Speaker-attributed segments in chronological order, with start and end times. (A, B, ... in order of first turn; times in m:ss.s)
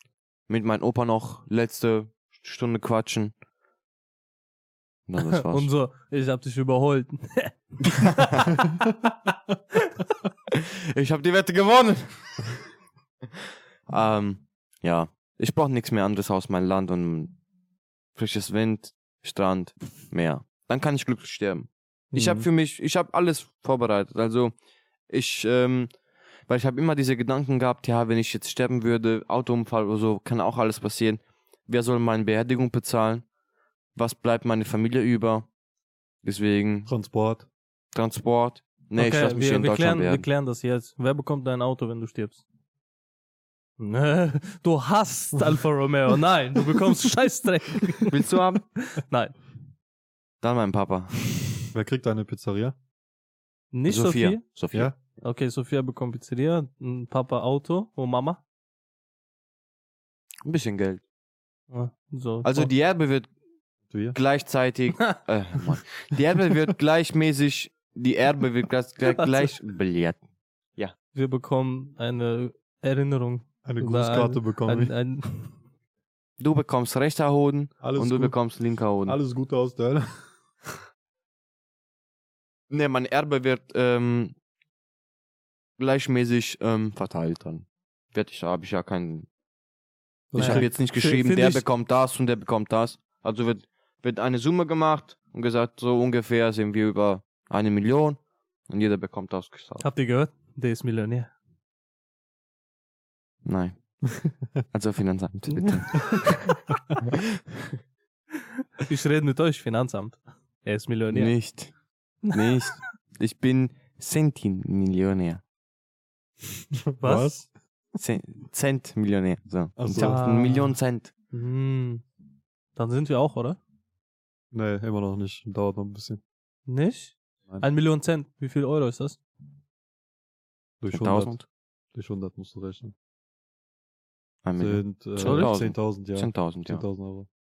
0:00.5-0:03.3 A
0:05.1-0:05.7 A
0:05.2-0:08.8 B
0:07.9-0:08.4 A
0:10.5-0:12.4 A
0:13.9-0:17.4 A
0:18.1-0:24.5 A
0:22.1-0:22.5 C
0:25.1-0:25.9 A
0:26.5-0:33.2 A
0:33.9-0:35.5 A
0:36.2-0:36.9 A
0:36.9-0:37.5 C
0:37.9-0:40.2 A
0:39.0-0:42.4 B
0:43.8-0:48.3 B
0:48.1-0:48.6 A
0:48.9-0:49.3 B
0:50.4-0:51.5 A
0:51.7-0:52.7 C
0:53.7-0:54.4 B
0:53.8-0:54.9 A
0:55.2-0:58.4 B
1:00.4-1:01.0 A
1:01.7-1:02.7 B
1:02.4-1:03.3 A
1:03.9-1:04.2 C
1:04.1-1:10.2 A
1:09.0-1:09.5 B
1:11.1-1:15.5 B
1:13.6-1:14.9 C
1:16.4-1:19.2 A
1:17.8-1:18.4 C
1:19.0-1:20.8 C
1:22.7-1:24.3 A
1:25.8-1:29.3 A
1:30.3-1:30.7 C
1:30.3-1:31.6 B
1:30.4-1:39.8 A
1:39.8-1:41.3 B
1:43.4-1:43.8 A
1:44.7-1:46.6 A
1:45.5-1:46.1 B
1:48.8-1:51.4 B
1:51.1-1:51.7 A
1:52.2-1:52.8 B
1:52.3-1:55.4 A
1:56.7-1:57.5 C
1:57.0-1:57.3 B
1:58.0-2:01.1 A
1:59.8-2:00.6 C
1:59.9-2:00.8 B
2:01.3-2:02.0 B
2:02.7-2:03.6 B
2:04.5-2:06.2 C
2:06.7-2:09.2 B
2:10.8-2:11.4 C
2:10.9-2:11.4 A
2:11.9-2:12.9 C
2:14.4-2:16.8 A
2:14.6-2:17.3 C
2:15.2-2:15.5 B